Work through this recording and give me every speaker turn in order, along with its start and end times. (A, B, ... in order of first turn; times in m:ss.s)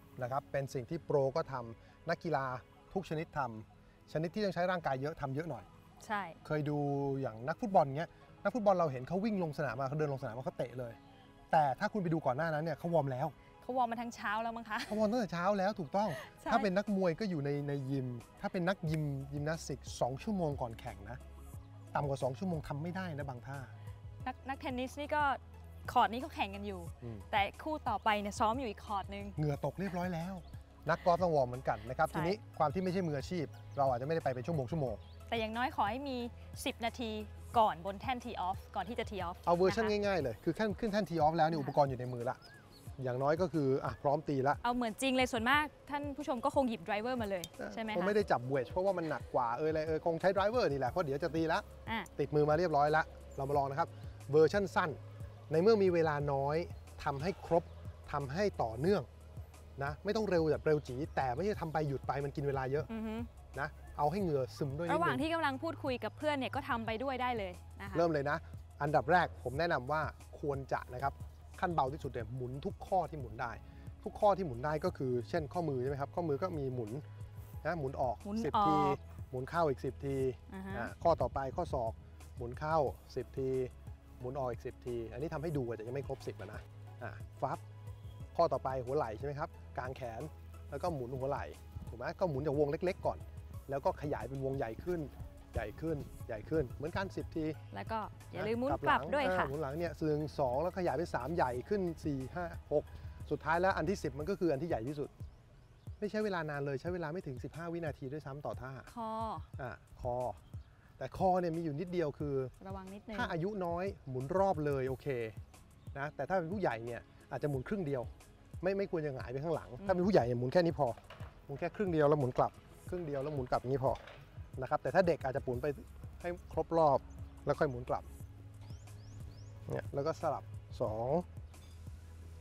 0:00.2-0:05.7 A
0:06.0-0:06.4 B
0:06.4-0:11.0 A
0:11.5-0:13.4 A
0:13.6-0:15.0 B
0:14.9-0:21.2 A
0:16.2-0:16.7 B
0:21.9-0:23.7 A
0:24.2-0:29.4 B
0:29.4-0:35.0 A
0:32.1-0:32.4 B
0:35.3-0:40.0 B
0:39.4-0:42.4 A
0:41.5-0:41.8 B
0:43.0-0:44.6 A
0:44.6-0:48.2 B
0:47.6-0:51.6 A
0:52.2-0:55.0 A
0:55.5-0:59.1 A
0:59.8-1:02.9 A
1:02.9-1:03.3 B
1:03.5-1:05.2 A
1:04.9-1:08.1 B
1:07.9-1:17.0 A
1:17.6-1:27.6 A
1:18.2-1:19.0 B
1:20.5-1:20.9 B
1:28.3-1:37.6 A
1:37.7-1:39.5 B
1:38.3-1:45.1 A
1:46.0-1:48.9 A
1:48.9-1:49.5 B
1:49.6-1:50.4 A
1:51.0-1:52.5 A
1:52.6-1:53.3 B
1:53.1-1:55.4 A
1:55.9-1:58.1 A
1:58.6-2:04.0 A
1:59.8-2:00.1 B
2:04.6-2:08.1 A
2:09.7-2:11.2 A